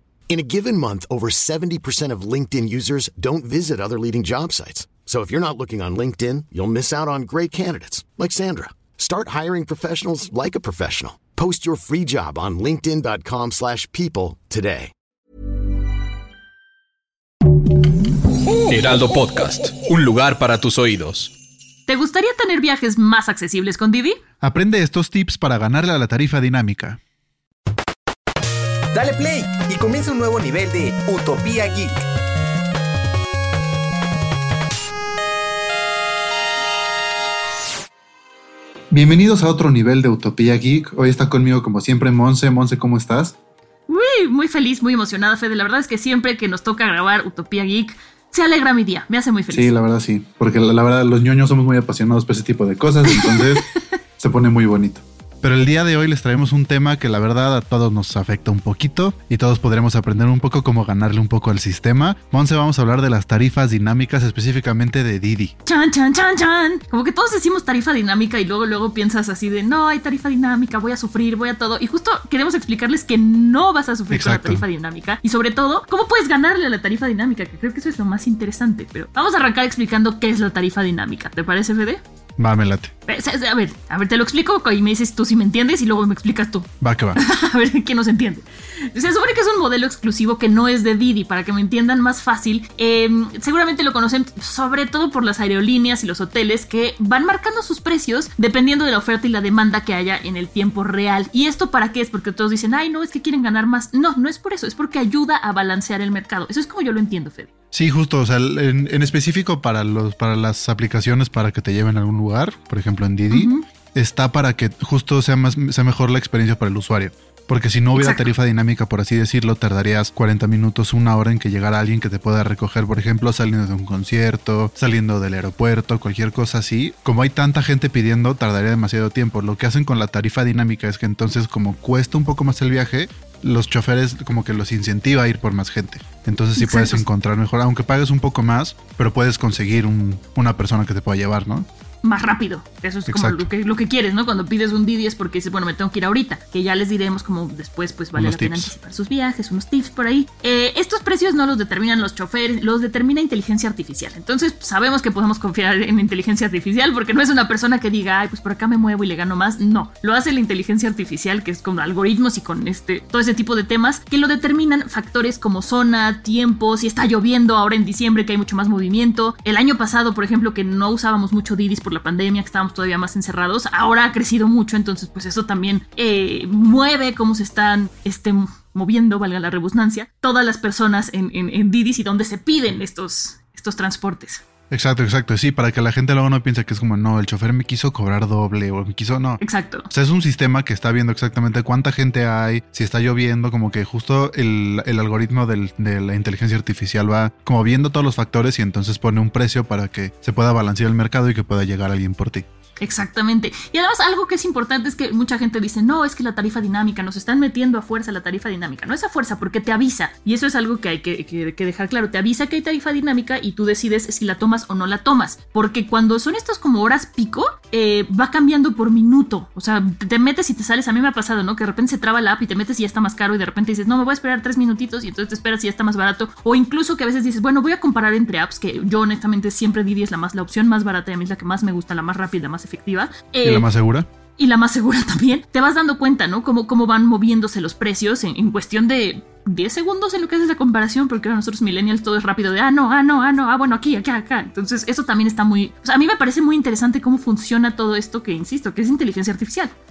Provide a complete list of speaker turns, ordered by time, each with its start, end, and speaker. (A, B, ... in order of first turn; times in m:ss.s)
0:00.3-0:14.9 A
0:18.7-0:21.3 B
0:21.9-0:24.2 C
0:24.4-0:27.0 D
0:28.9-0:32.0 E
0:29.0-0:29.8 B
0:30.3-0:31.4 B
0:38.9-0:43.4 D
0:43.9-0:49.7 C
0:49.5-0:53.7 D
0:53.1-0:53.8 C
0:54.2-1:05.5 D
1:05.7-1:22.0 C
1:14.1-1:14.6 D
1:22.4-1:22.9 D
1:23.1-1:47.5 C
1:26.8-1:27.2 D
1:47.7-2:21.7 D
1:53.3-1:53.6 C
1:57.9-1:58.3 C
2:16.6-2:17.0 C
2:22.0-3:04.4 C
2:23.1-2:23.5 D
2:28.2-2:28.7 D
3:04.7-3:22.5 D
3:09.4-3:09.9 C
3:22.8-3:53.7 C
3:53.4-3:54.1 D
3:54.4-4:09.7 C